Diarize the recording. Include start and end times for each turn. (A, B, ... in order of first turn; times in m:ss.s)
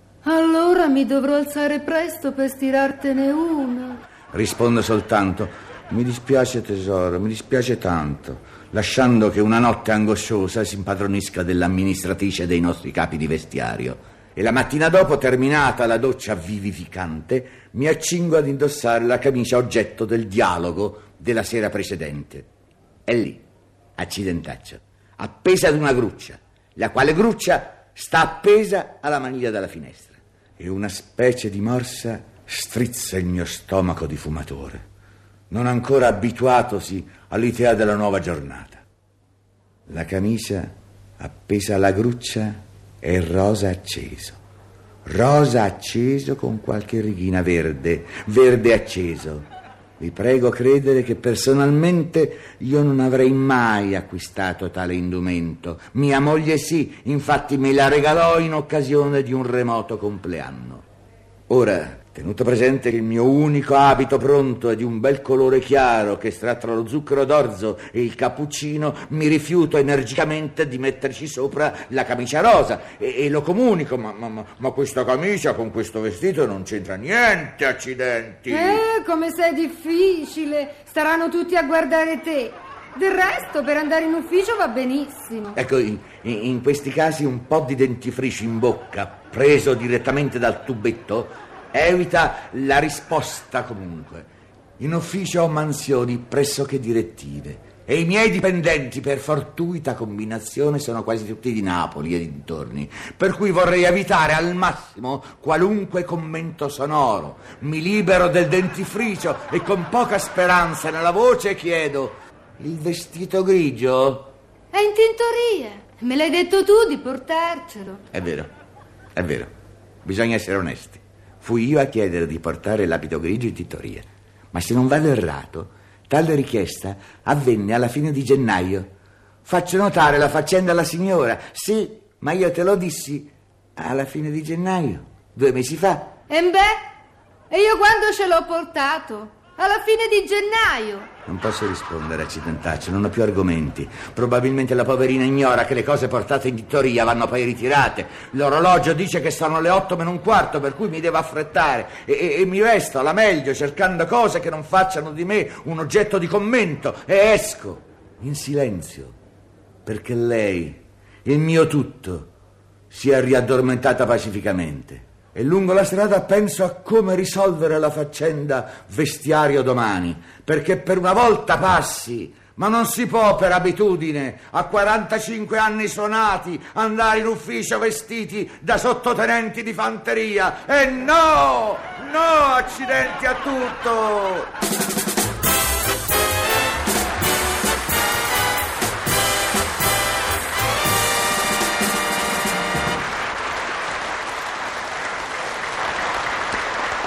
0:00.2-0:04.0 A
0:04.3-0:22.5 B
0:23.0-0:23.4 B
0:24.0-0:34.8 B
0:35.5-0:38.8 B
0:39.9-0:44.4 B
0:45.0-0:49.5 B
0:50.0-1:00.8 B
1:01.5-1:18.8 B
1:18.5-1:25.6 A
1:25.5-1:34.3 B
1:34.8-1:54.3 B
1:54.7-1:58.0 A
1:58.1-1:58.5 B
1:59.2-1:59.5 B
2:00.0-2:08.9 B
2:09.4-2:16.1 B
2:16.3-2:16.8 A
2:17.5-2:21.1 A
2:21.2-2:39.2 B
2:39.8-2:42.3 B
2:42.9-3:04.5 B